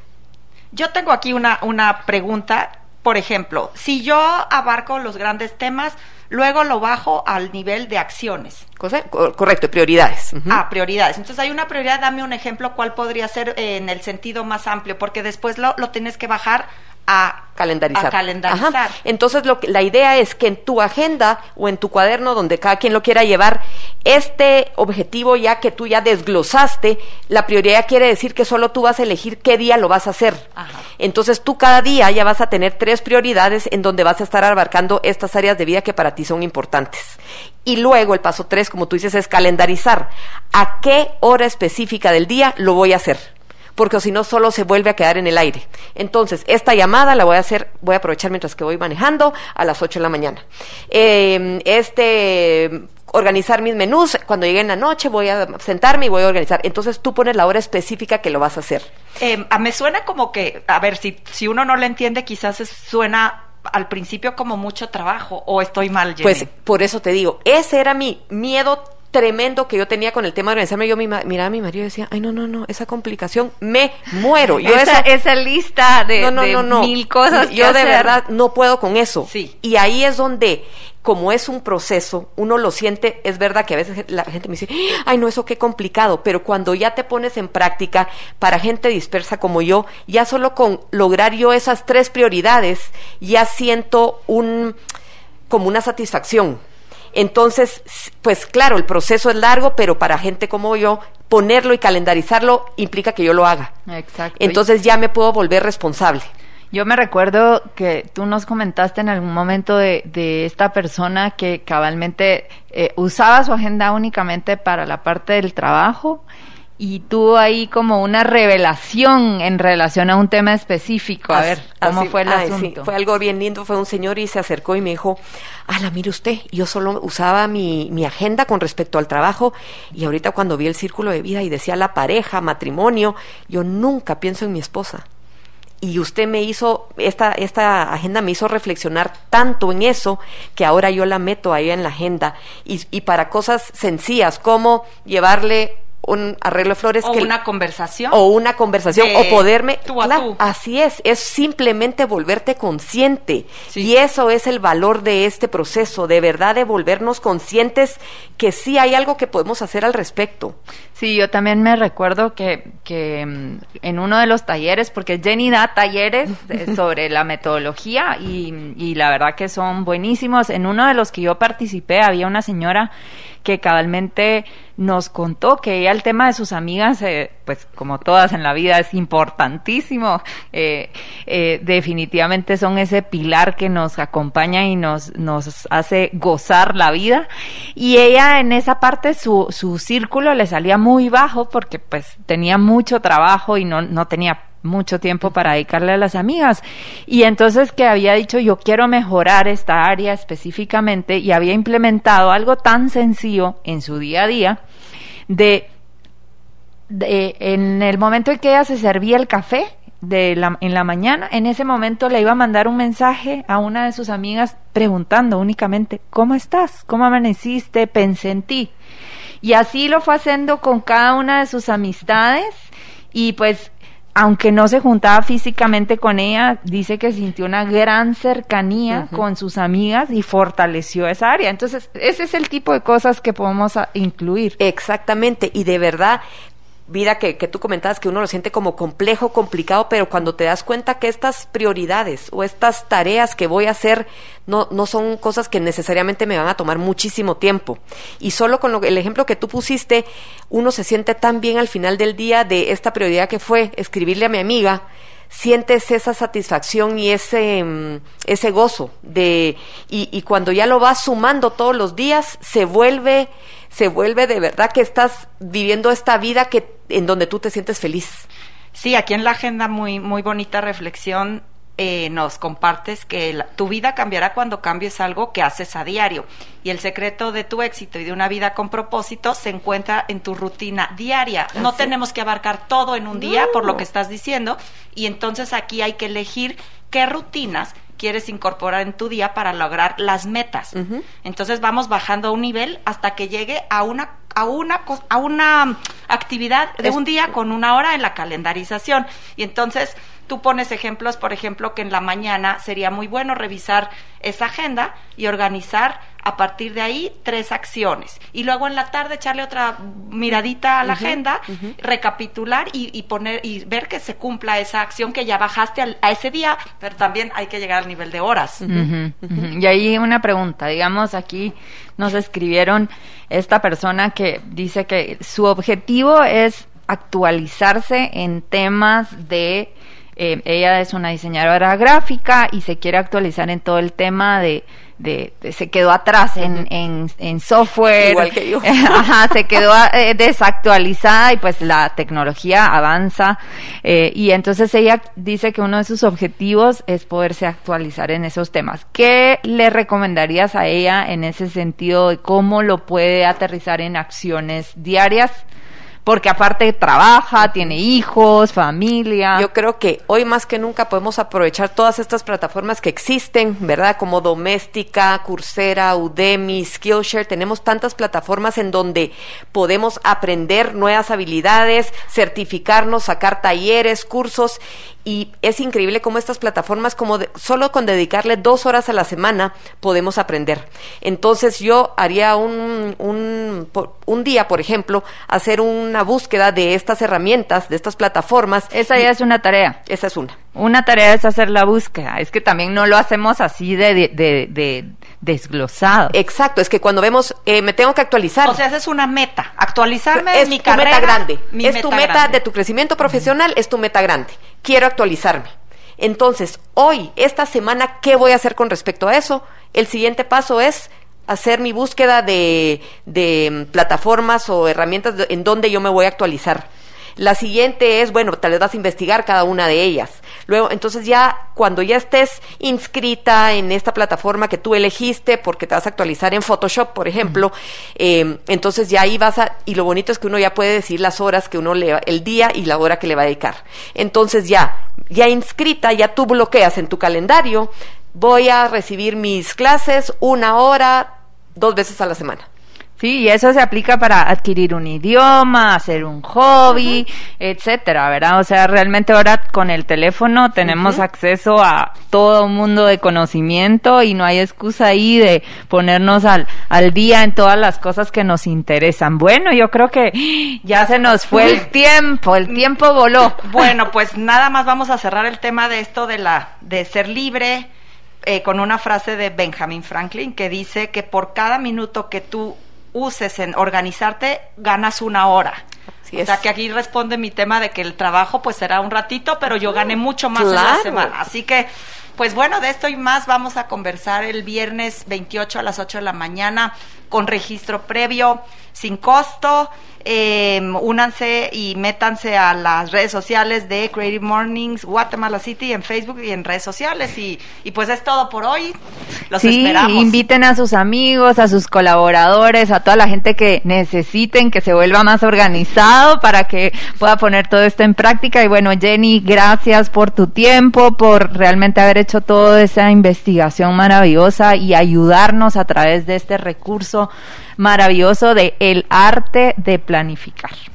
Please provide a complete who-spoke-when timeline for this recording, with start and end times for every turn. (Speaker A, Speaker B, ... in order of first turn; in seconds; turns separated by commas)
Speaker A: 0.7-8.7, Speaker B: 8.8-10.6, Speaker A: 10.5-19.0, Speaker B: 17.6-30.5, Speaker B: 31.0-58.9, Speaker A: 59.2-66.5, Speaker B: 66.2-75.1, Speaker C: 74.6-78.2, Speaker B: 76.2-94.8, Speaker A: 79.3-79.5, Speaker B: 95.5-96.6, Speaker B: 97.1-103.7, Speaker C: 103.9-104.6, Speaker B: 104.4-106.3, Speaker C: 106.7-116.2, Speaker C: 116.8-122.9, Speaker B: 121.3-135.1, Speaker B: 135.8-147.3, Speaker A: 147.0-148.2, Speaker B: 148.1-160.6, Speaker A: 148.9-150.4, Speaker C: 160.9-172.9, Speaker C: 173.4-204.6, Speaker C: 205.3-205.7, Speaker C: 206.9-218.7, Speaker C: 219.4-222.6, Speaker C: 223.1-234.6, Speaker B: 228.9-229.2, Speaker B: 234.6-236.2, Speaker B: 236.9-268.3, Speaker A: 268.8-318.7, Speaker B: 281.6-281.9, Speaker B: 283.2-283.6, Speaker B: 290.8-291.1, Speaker B: 310.9-311.1, Speaker C: 318.7-355.4, Speaker B: 338.0-339.1, Speaker C: 356.1-359.5, Speaker B: 359.4-388.8, Speaker C: 388.7-389.8, Speaker B: 389.9-390.4, Speaker C: 390.6-396.1, Speaker B: 396.1-398.6, Speaker A: 398.4-402.4, Speaker B: 400.1-442.5, Speaker C: 443.0-463.5, Speaker A: 463.4-467.7, Speaker A: 468.2-475.6, Speaker B: 476.1-476.4, Speaker A: 476.1-498.8, Speaker B: 480.4-481.1, Speaker A: 499.3-500.2, Speaker C: 499.4-520.6